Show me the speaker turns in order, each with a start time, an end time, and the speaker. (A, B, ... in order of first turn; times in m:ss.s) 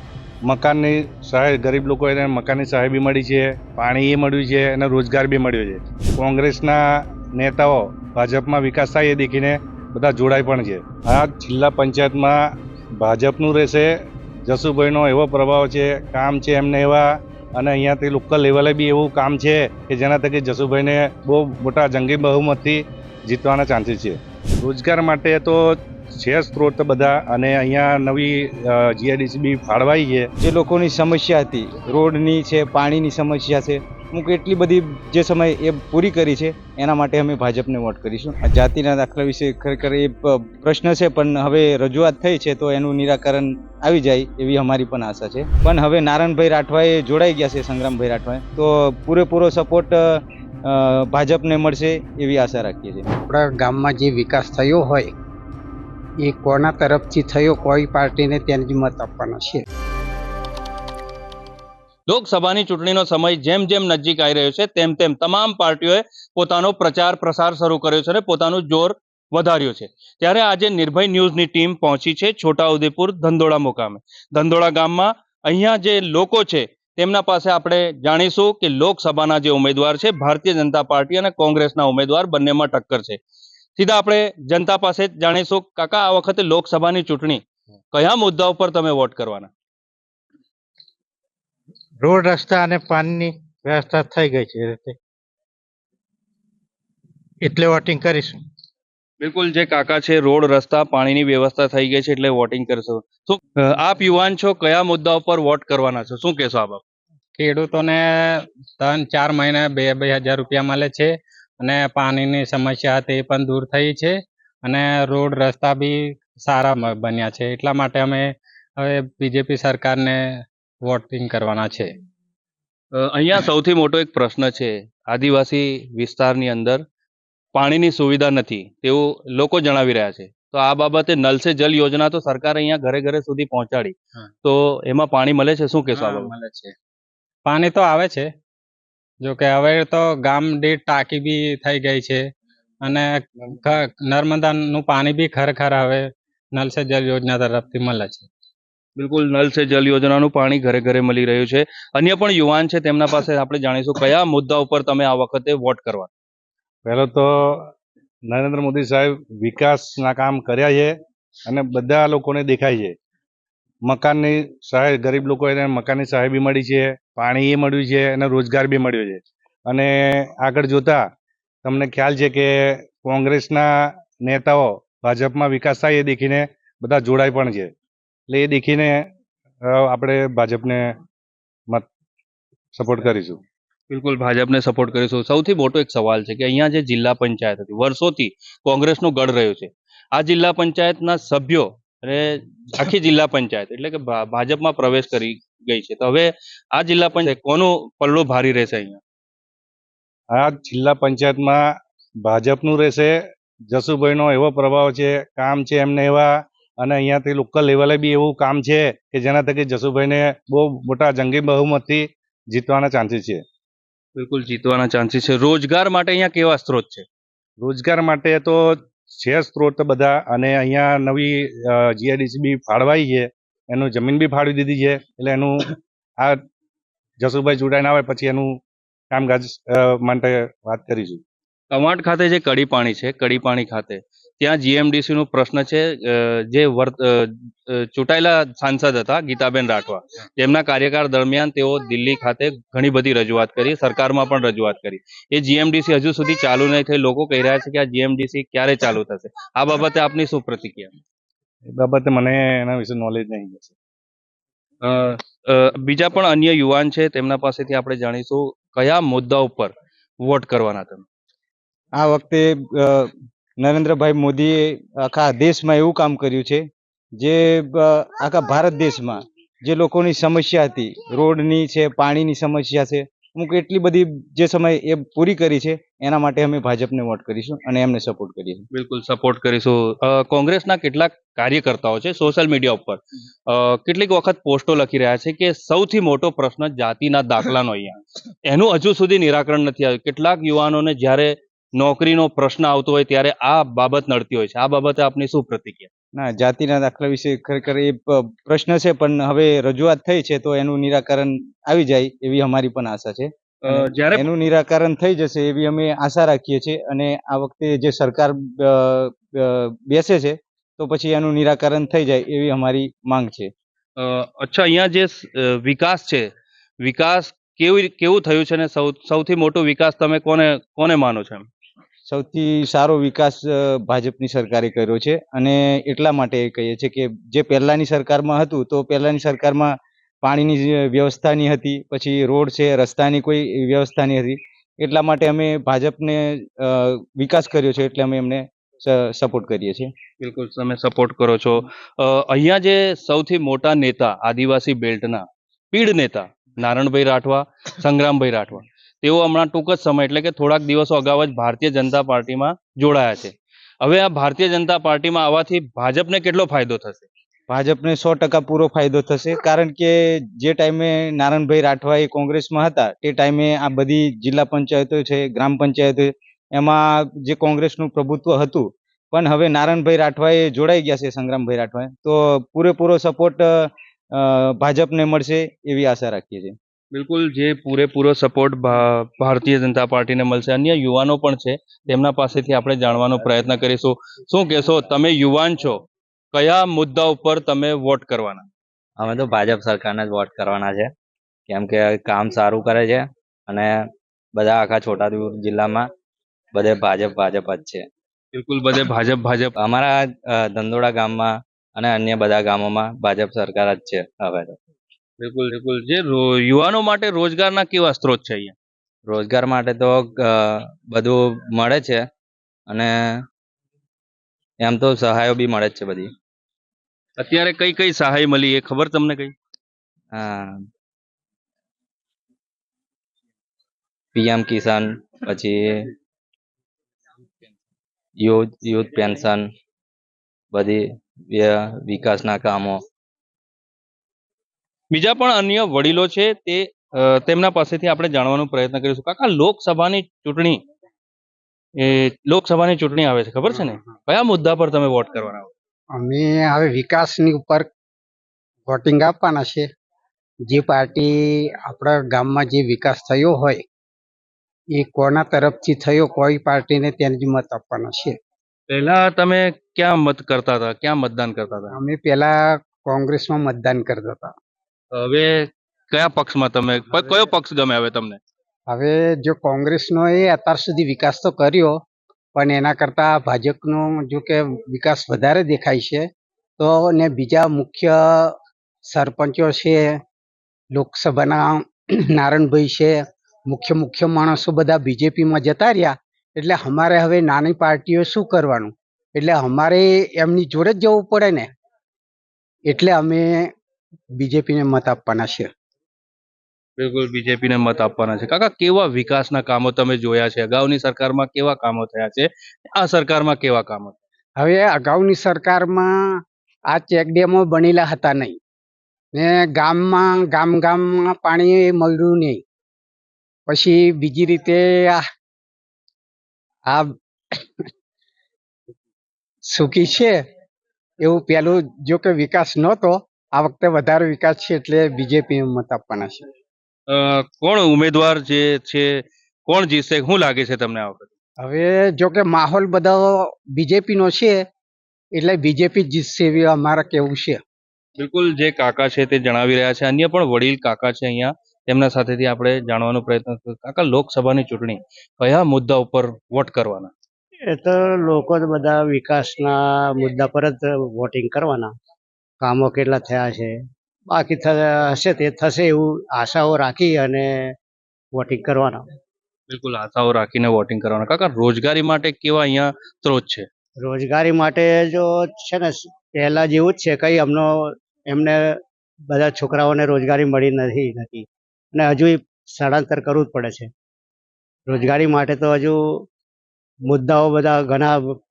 0:00.4-0:06.8 A
0:07.3-0:12.4 A
0:13.0-0:13.9 A
0:14.5-0:30.3 A
0:30.4-0:53.0 B
0:53.3-0:55.1 C
0:56.2-0:59.6 C
1:02.1-1:23.2 D
1:23.8-1:27.4 D
1:27.9-1:29.5 D
1:32.0-1:34.9 E
1:37.4-1:38.4 E
1:39.2-1:46.8 D
1:47.4-2:01.9 F
2:03.0-2:06.8 D
2:07.5-2:16.3 D
2:15.9-2:16.7 F
2:17.4-2:18.3 F
2:19.2-2:22.3 F
2:22.8-2:28.3 F
2:29.0-2:36.1 D
2:36.8-2:37.7 A
2:38.3-2:40.9 A
2:41.5-2:42.9 A
2:43.8-2:51.0 A
2:51.6-2:53.6 A
2:54.2-2:57.7 A
2:58.3-2:59.0 A
2:59.6-3:00.9 A
3:02.8-3:03.4 A
3:03.9-3:19.0 D
3:20.3-3:21.6 A
3:22.2-3:23.1 A
3:23.7-3:33.4 A
3:34.2-3:37.0 D
3:37.6-3:46.4 A
3:47.2-3:48.6 A
3:49.1-3:51.2 A
3:51.7-4:10.9 D
4:11.8-4:13.7 A
4:14.8-4:19.7 D
4:20.2-4:21.0 D
4:22.0-4:38.7 B
4:38.7-4:55.9 D
4:56.2-5:13.5 B
5:03.6-5:04.3 D
5:14.0-5:16.3 D
5:16.8-5:21.5 D
5:22.1-5:39.9 B
5:40.2-5:57.0 D
5:57.5-6:16.6 B
6:16.9-6:25.8 D
6:26.3-6:28.4 D
6:29.0-6:30.9 G
6:31.5-6:33.8 G
6:34.4-6:35.8 G
6:36.5-6:37.8 G
6:38.3-6:39.5 D
6:39.6-6:44.5 G
6:45.2-6:48.5 D
6:49.1-6:52.0 G
6:54.6-6:56.1 G
6:57.2-6:59.3 D
7:00.1-7:00.5 G
7:04.1-7:05.6 G
7:08.2-7:09.4 G
7:10.5-7:12.8 G
7:14.9-7:20.6 D
7:21.8-7:25.5 D
7:26.0-7:27.7 C
7:28.7-7:29.7 C
7:30.5-7:33.6 C
7:34.7-7:38.2 C
7:38.7-7:41.8 D
7:41.7-7:44.3 C
7:45.0-7:48.2 D
7:48.7-7:51.7 C
7:52.3-7:56.0 C
7:56.6-7:58.3 C
7:58.9-7:59.9 C
8:00.7-8:01.6 C
8:02.1-8:11.5 C
8:12.7-8:13.5 C
8:14.2-8:15.5 C
8:16.8-8:23.9 D
8:24.4-8:25.9 C
8:26.7-8:28.4 C
8:29.1-8:32.4 C
8:33.5-8:35.0 C
8:36.7-8:37.5 C
8:39.4-8:40.2 C
8:41.0-8:46.2 C
8:46.9-8:48.9 D
8:49.4-8:51.1 D
8:51.4-8:54.4 C
8:55.2-8:57.4 C
8:58.0-9:06.9 D
9:07.5-9:11.7 H
9:12.4-9:13.5 H
9:14.1-9:17.3 H
9:18.1-9:18.8 H
9:19.5-9:23.4 D
9:23.8-9:28.4 H
9:29.1-9:33.7 H
9:34.7-9:35.8 H
9:36.9-9:38.0 H